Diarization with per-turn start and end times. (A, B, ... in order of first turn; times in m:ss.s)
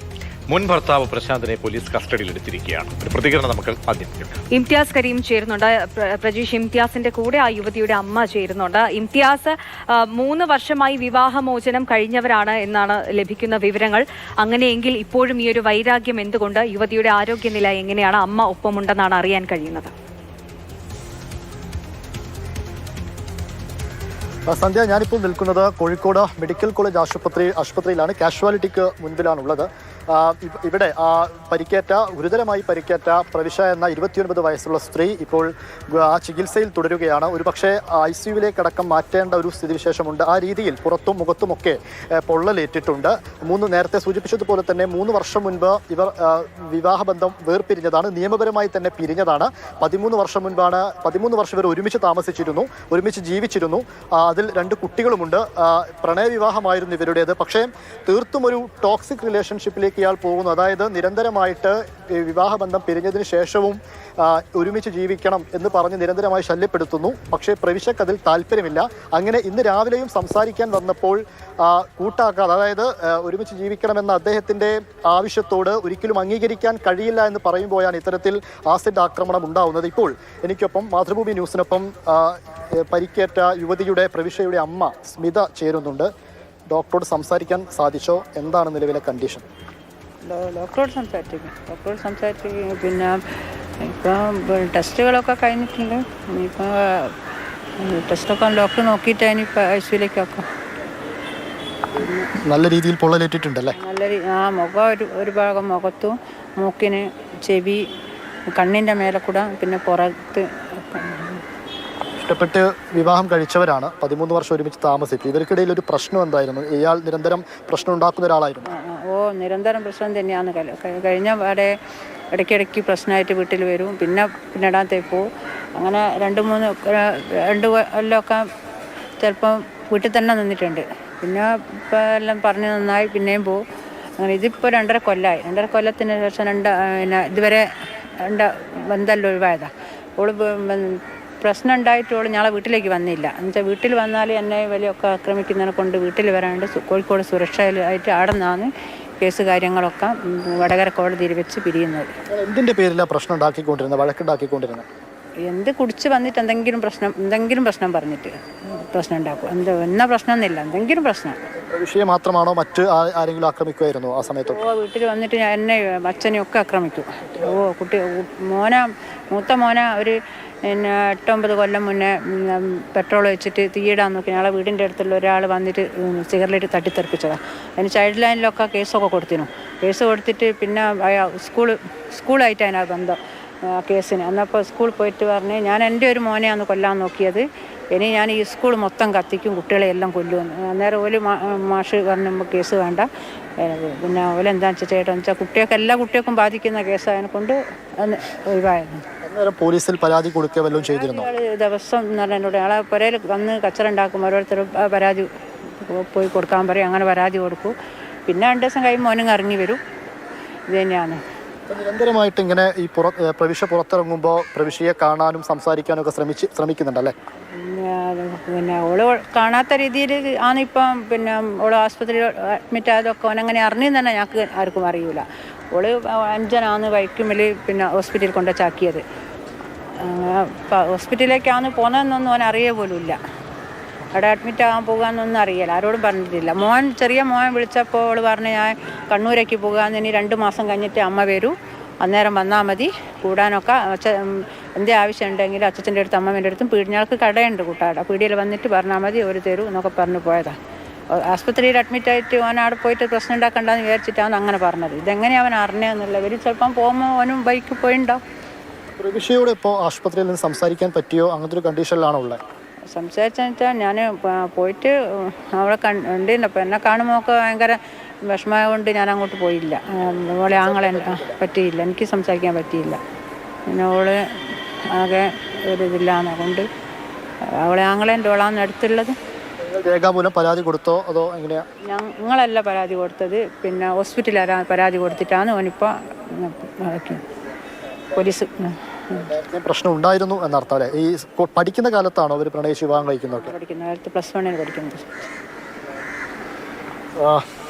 0:00.5-0:04.4 A
0:04.5-0:19.9 B
0:24.5-1:26.1 C
1:26.7-1:29.4 C
1:30.2-1:33.2 D
1:33.8-1:37.1 D
1:37.8-1:40.4 D
1:42.0-1:42.3 D
1:42.4-1:43.8 C
1:43.7-1:47.8 D
1:48.6-1:51.4 D
1:52.2-1:58.7 C
1:58.6-2:01.7 D
2:02.3-2:05.2 D
2:05.8-2:08.4 D
2:09.2-2:13.6 D
2:14.2-2:17.7 D
2:18.2-2:32.1 D
2:32.3-2:34.8 C
2:35.4-2:41.4 D
2:41.7-2:44.6 C
2:44.5-3:13.1 D
3:13.6-3:19.0 D
3:19.2-3:21.3 C
3:20.8-3:27.7 D
3:28.3-3:29.8 D
3:30.7-3:31.2 D
3:31.7-3:37.1 C
3:37.5-3:49.0 D
3:50.0-3:53.2 D
3:54.1-4:10.5 D
4:11.1-4:18.2 D
4:19.0-4:22.4 C
4:22.9-4:33.0 D
4:30.5-4:31.4 C
4:33.7-4:36.6 D
4:37.6-4:39.1 D
4:39.6-4:41.6 C
4:41.8-4:47.2 D
4:48.1-4:49.3 D
4:49.3-4:53.5 C
4:53.4-4:55.1 D
4:57.2-4:57.4 C